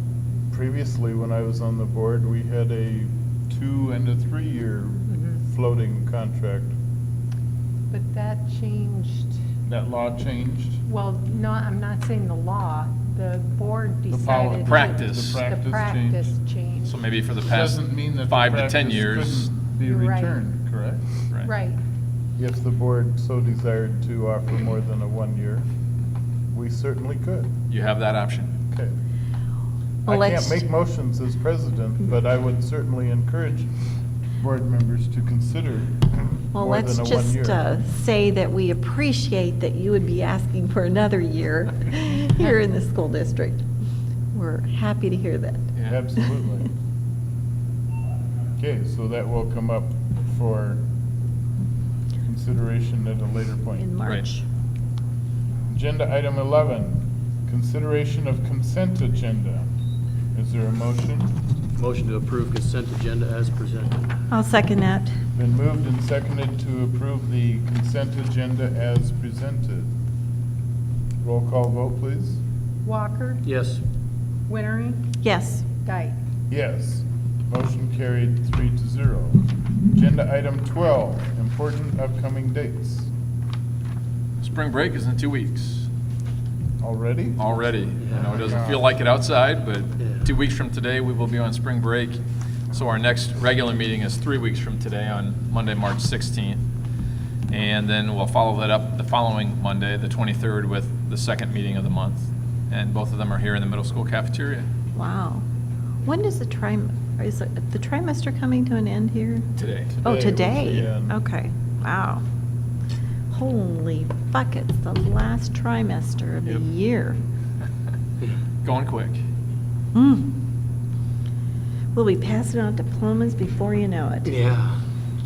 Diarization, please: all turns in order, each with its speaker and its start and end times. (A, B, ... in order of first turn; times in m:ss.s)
0:00.5-0:06.7 A
0:07.9-0:09.3 B
0:09.7-0:10.8 A
0:10.9-0:17.0 B
0:14.1-0:16.3 A
0:14.7-0:15.4 C
0:16.8-0:19.5 C
0:17.5-0:21.2 A
0:19.8-0:20.4 B
0:21.4-0:21.8 B
0:22.4-0:25.7 A
0:26.5-0:27.5 A
0:27.7-0:28.5 C
0:30.1-0:33.7 A
0:30.2-0:30.6 D
0:34.4-0:37.6 A
0:36.5-0:43.6 D
0:44.3-0:45.7 D
0:45.8-0:46.7 A
0:48.6-0:50.8 A
0:52.2-0:53.9 A
0:53.8-0:54.4 D
0:55.7-0:59.7 A
1:00.3-1:01.4 A
1:01.8-1:04.1 E
1:04.3-1:05.2 D
1:05.3-1:09.9 A
1:11.2-1:12.4 A
1:12.8-1:13.5 B
1:13.4-1:13.8 E
1:14.5-1:15.2 B
1:15.2-1:15.7 D
1:15.8-1:16.2 B
1:16.5-1:23.1 A
1:24.4-1:25.9 C
1:26.8-1:27.4 A
1:27.4-1:36.6 C
1:28.0-1:28.3 E
1:28.3-1:28.8 A
1:30.0-1:30.3 E
1:37.5-1:44.7 C
1:45.0-1:45.4 D
1:46.0-1:49.5 D
1:49.6-1:50.0 C
1:49.9-1:51.2 A
1:50.0-1:52.2 D
1:50.7-1:50.9 C
1:53.3-1:57.2 D
1:58.6-1:59.2 C
1:59.9-2:00.4 D
2:02.0-2:04.4 D
2:04.2-2:04.8 E